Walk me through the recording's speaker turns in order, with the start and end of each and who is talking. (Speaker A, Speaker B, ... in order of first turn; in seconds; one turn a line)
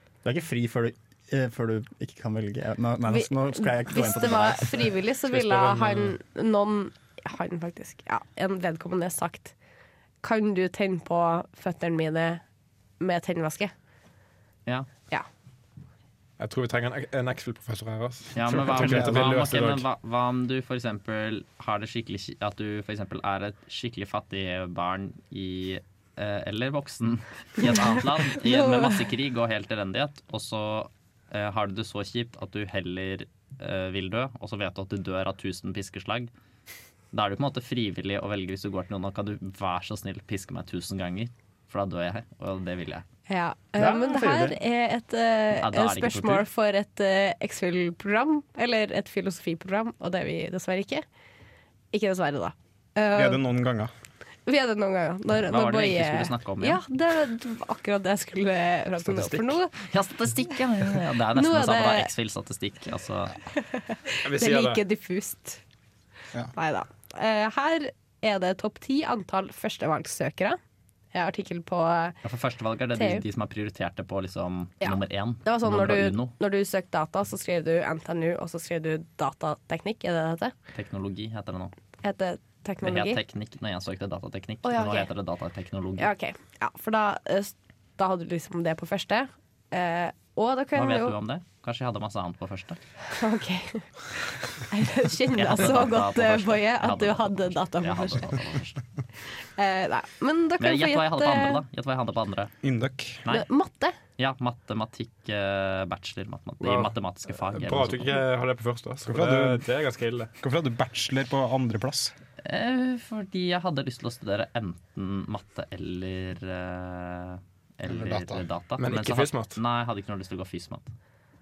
Speaker A: 0.2-5.0
Speaker B: 3.1-9.6
Speaker C: 5.3-6.2
Speaker B: 10.2-12.4
Speaker B: 13.0-13.7
Speaker C: 16.4-19.9
Speaker D: 18.3-36.3
Speaker B: 27.6-29.0
Speaker D: 37.1-43.1
Speaker B: 43.3-51.0
Speaker A: 43.8-44.6
Speaker D: 45.6-46.5
Speaker B: 51.9-53.4
Speaker E: 53.1-53.9
Speaker B: 54.5-59.8
Speaker D: 55.5-56.8
Speaker D: 59.8-63.4
Speaker B: 61.3-62.1
Speaker B: 63.5-65.6
Speaker C: 64.2-64.8
Speaker B: 66.5-70.6
Speaker B: 71.1-72.2
Speaker D: 72.2-76.3
Speaker B: 72.9-73.2
Speaker B: 74.8-80.5
Speaker D: 80.7-81.7
Speaker B: 82.0-83.2
Speaker D: 82.8-86.1
Speaker B: 84.6-85.1
Speaker B: 86.0-91.2
Speaker D: 90.8-92.8
Speaker B: 93.1-98.4
Speaker D: 95.3-98.8
Speaker B: 99.3-101.6
Speaker D: 100.6-102.5
Speaker E: 102.6-103.2
Speaker B: 103.3-104.0
Speaker D: 104.2-108.2
Speaker C: 106.6-110.3
Speaker E: 109.0-109.7
Speaker E: 110.4-112.1
Speaker D: 112.4-120.9
Speaker E: 117.9-118.4
Speaker C: 118.8-119.6